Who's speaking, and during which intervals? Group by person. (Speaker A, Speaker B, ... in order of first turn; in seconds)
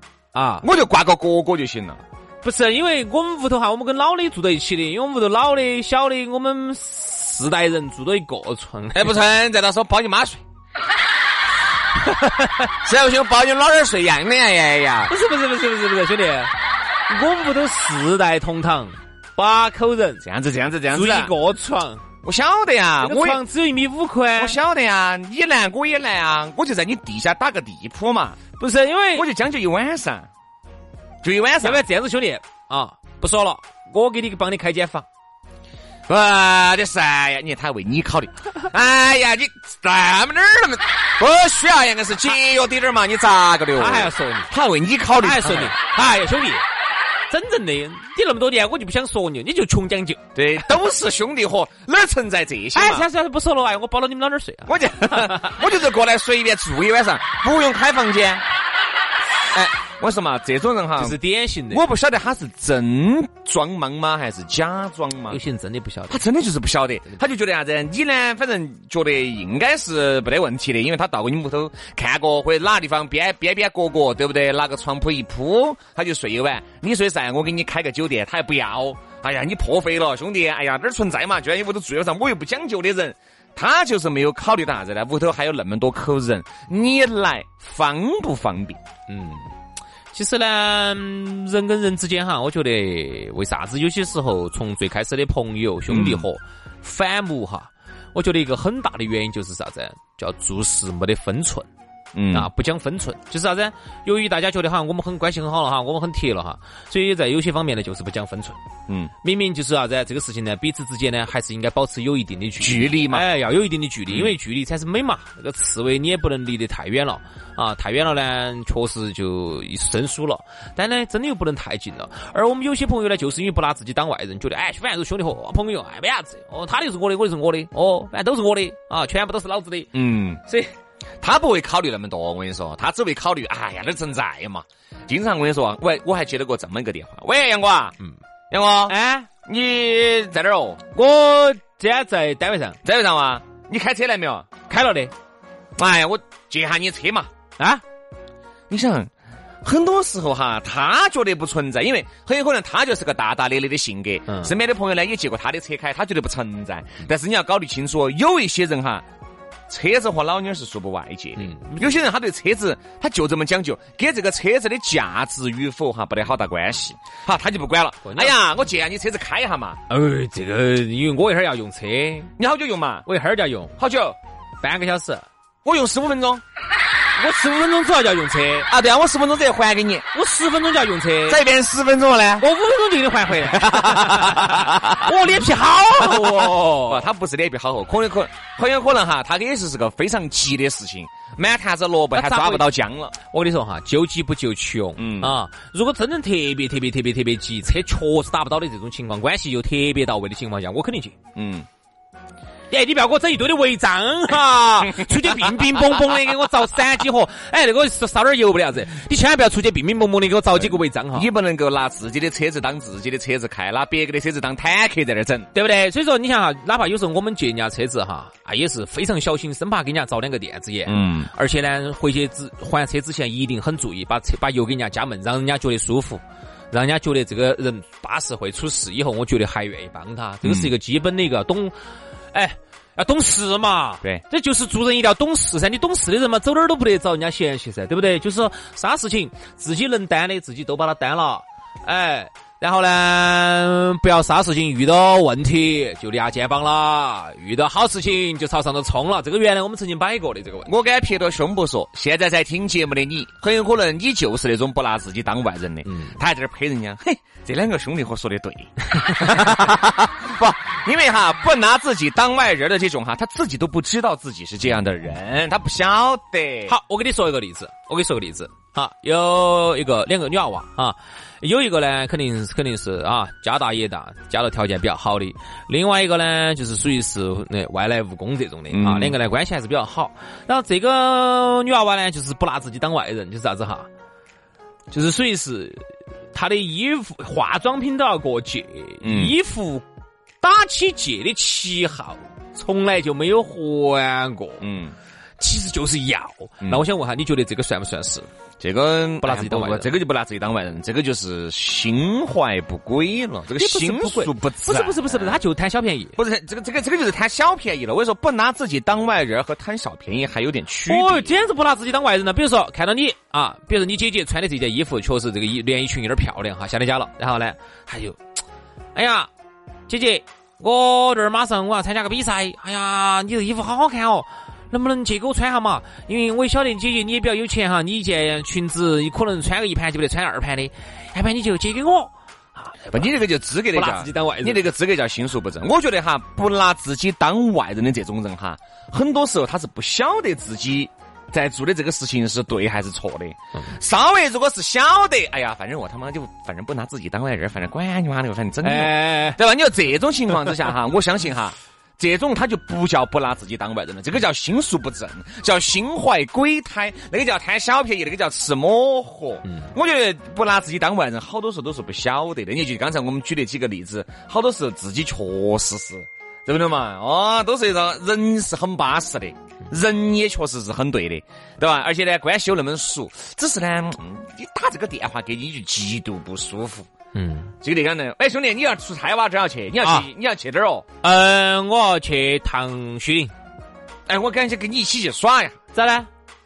Speaker A: 0.3-0.6, 2.4-9.2, 12.2-12.6, 15.1-16.5, 17.1-20.2, 20.9-22.0, 23.0-24.6, 28.6-29.3, 31.6-35.1, 43.8-44.5, 45.2-46.6, 47.3-50.2, 52.8-55.5, 61.0-61.8, 65.3-66.2, 89.1-89.5, 90.1-101.7, 102.3-108.6, 109.2-129.9, 130.4-130.7, 138.9-139.3, 140.9-142.8, 144.7-145.1, 161.4-162.0, 168.1-168.3, 169.9-172.3, 173.1-173.7, 174.6-175.2, 177.2-178.7, 180.1-181.4, 182.4-187.0, 192.1-192.7, 193.2-201.2, 202.7-211.3, 215.5-231.7, 232.3-250.7, 255.9-256.2, 259.0-259.2, 266.7-283.9, 284.9-289.8, 290.4-294.6, 295.4-298.3, 299.2-299.9, 303.6-306.2, 310.9-318.2, 318.9-319.3, 319.9-333.1, 333.7-334.7, 348.6-349.4, 377.1-377.5, 379.8-380.1, 381.0-383.3, 385.7-386.1
Speaker B: 0.6-2.0, 8.9-10.4, 12.8-15.1, 20.2-21.3, 22.2-23.4, 24.4-28.4, 29.1-30.3, 31.2-31.8, 36.1-45.7, 50.3-53.1, 54.7-58.4, 59.5-61.2, 61.7-65.4, 66.1-88.8, 95.9-96.2, 102.1-102.5, 112.6-113.2, 114.1-114.3, 129.9-130.4, 131.2-137.9, 138.5-140.8, 142.8-144.5, 145.8-147.3, 148.7-149.1, 149.6-159.1, 159.7-169.8, 172.4-173.1, 173.8-174.2, 175.7-176.4, 178.7-180.1, 181.3-182.5, 183.5-185.1, 186.0-193.1, 195.0-195.3, 201.3-201.7, 204.9-205.5, 210.6-215.5, 220.8-221.3, 230.4-230.7, 250.7-266.7, 278.7-279.2, 289.0-289.3, 294.6-294.9, 298.6-305.4, 306.2-311.4, 332.9-376.9, 377.6-380.8, 384.1-385.6